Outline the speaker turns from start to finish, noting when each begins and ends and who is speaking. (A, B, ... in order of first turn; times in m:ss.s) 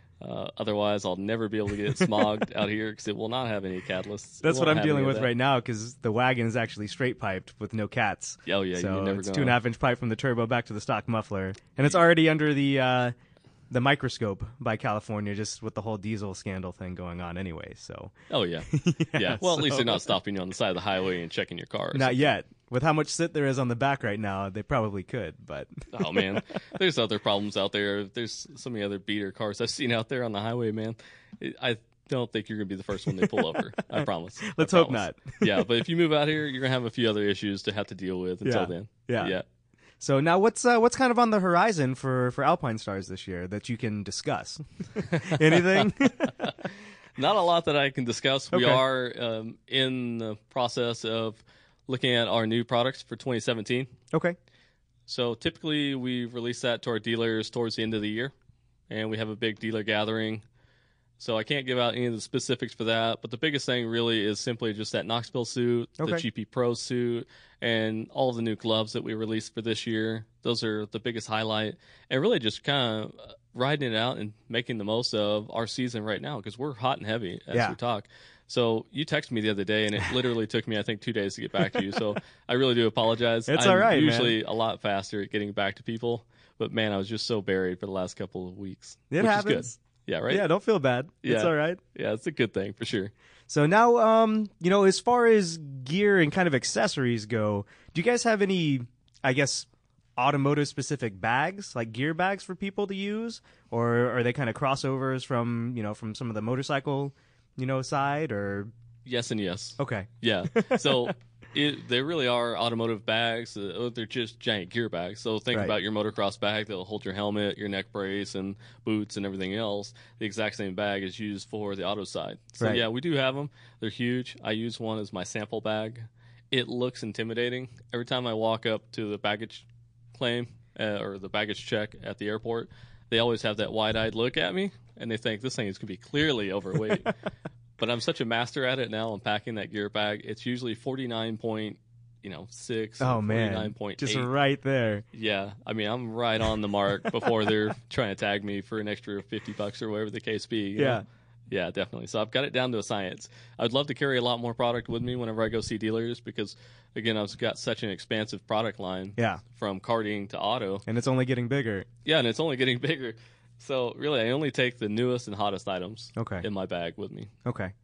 0:00.2-0:05.3 A
0:04.4-0:13.1 B
0:08.4-0:09.6 A
0:13.7-0:18.1 B
0:18.3-0:22.3 A
0:18.7-0:20.0 B
0:21.9-0:26.4 B
0:25.9-0:39.4 A
0:34.0-0:35.6 B
0:38.4-0:39.4 B
0:40.0-0:46.3 B
0:45.0-0:46.6 A
0:47.2-0:53.9 A
0:48.5-0:48.8 B
0:54.1-0:54.4 B
0:55.1-0:58.3 A
0:58.9-1:00.4 A
1:01.2-1:30.4 A
1:17.5-1:17.8 B
1:23.5-1:24.4 B
1:29.1-1:29.8 B
1:30.3-1:31.8 B
1:31.2-1:33.1 A
1:33.5-1:48.7 B
1:49.0-2:17.1 A
1:49.8-1:51.0 B
2:17.8-2:24.3 A
2:23.0-2:25.0 B
2:25.1-2:40.8 A
2:30.8-2:31.0 B
2:39.2-2:39.4 B
2:40.8-2:41.9 B
2:42.0-2:47.3 A
2:46.2-2:46.4 B
2:47.4-2:47.7 B